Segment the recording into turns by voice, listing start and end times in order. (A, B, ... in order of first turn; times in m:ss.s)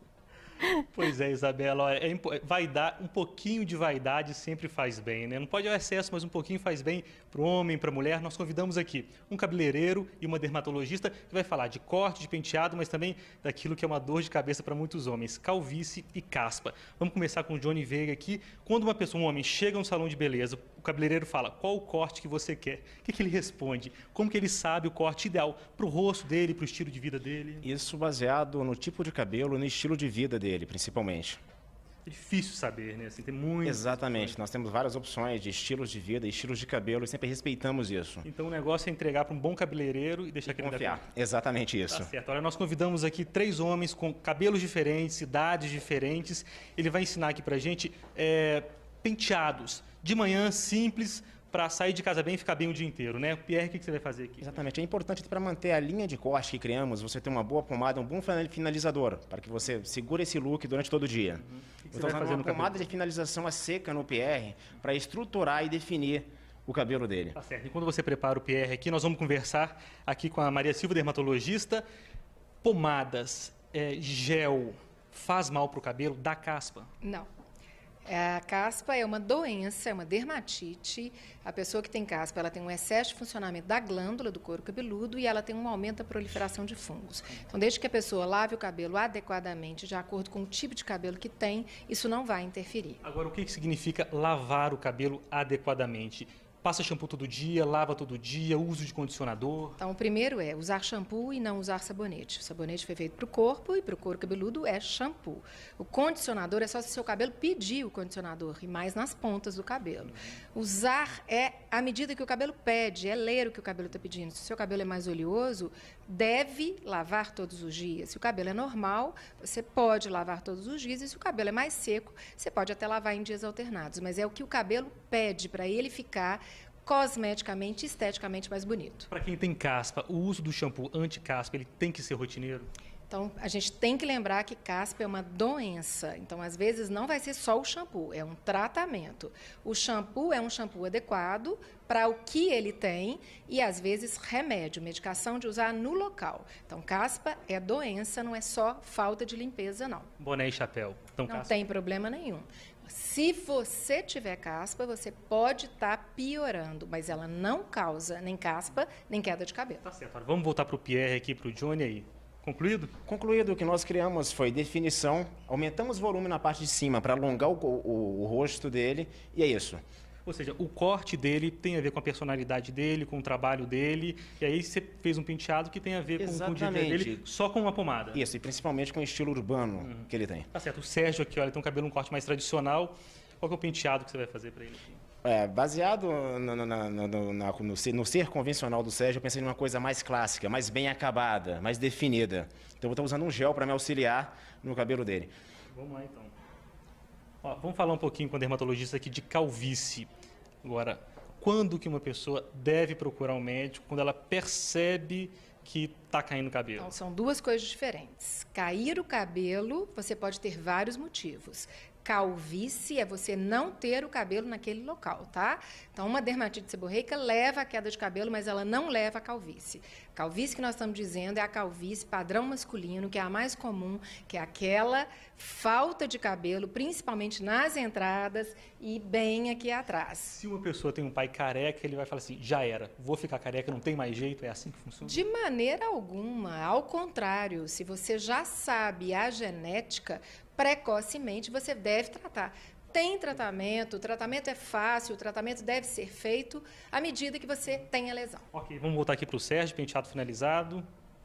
0:00.9-0:27.6 A
0:27.6-0:31.4 B
0:32.1-0:34.4 A
0:33.6-0:38.3 B
0:38.2-0:41.0 A
0:40.5-0:42.1 B
0:41.9-0:54.6 A
0:54.4-1:07.4 B
1:01.4-1:02.9 A
1:07.4-1:11.8 A
1:12.6-1:16.9 A
1:17.0-1:17.3 C
1:18.0-1:33.0 C
1:33.0-1:39.8 A
1:39.8-2:09.1 C
2:09.1-2:12.7 A
2:13.1-2:30.1 C
2:30.2-2:31.6 A
2:31.3-2:39.8 C
2:39.8-2:42.9 A
2:43.1-2:49.8 B
2:50.3-2:58.2 A
2:56.2-2:57.2 B
2:58.1-3:00.5 B
2:59.8-3:05.0 A
3:05.2-3:15.3 B
3:15.7-3:16.3 A
3:17.4-3:20.1 A
3:20.6-3:26.9 A
3:26.8-3:50.4 C
3:50.3-3:55.2 A
3:55.0-4:08.4 C
4:08.5-4:10.8 A